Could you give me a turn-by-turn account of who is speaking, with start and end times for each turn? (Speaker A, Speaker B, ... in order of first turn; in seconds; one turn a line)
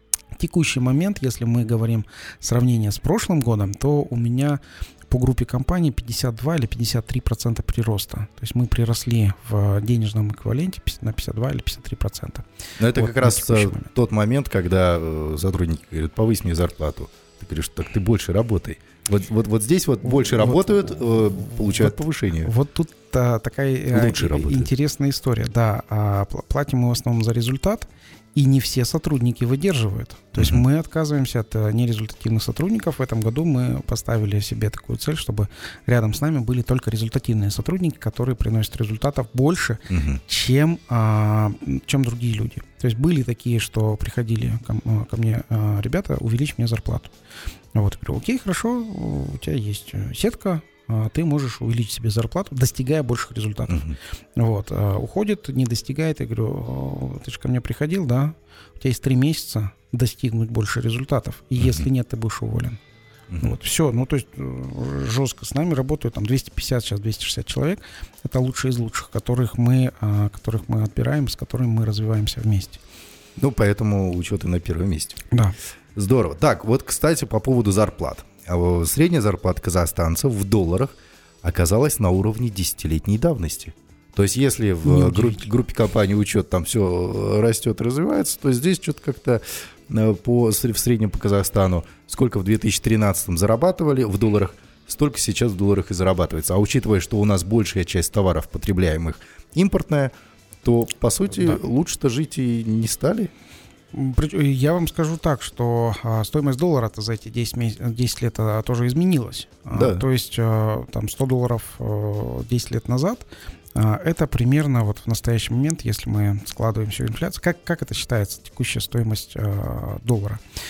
Speaker A: 0.3-13.9
Speaker B: 12.8-22.5
Speaker A: 20.0-47.1
Speaker B: 23.9-24.7
Speaker B: 30.4-30.6
Speaker B: 39.9-40.2
Speaker A: 47.7-62.8
Speaker B: 53.7-54.0
Speaker B: 61.6-61.9
Speaker B: 63.3-63.6
Speaker A: 63.4-72.8
Speaker B: 73.4-75.2
Speaker B: 76.0-103.3
Speaker A: 84.8-85.5
Speaker A: 103.9-120.4
Speaker B: 109.7-110.0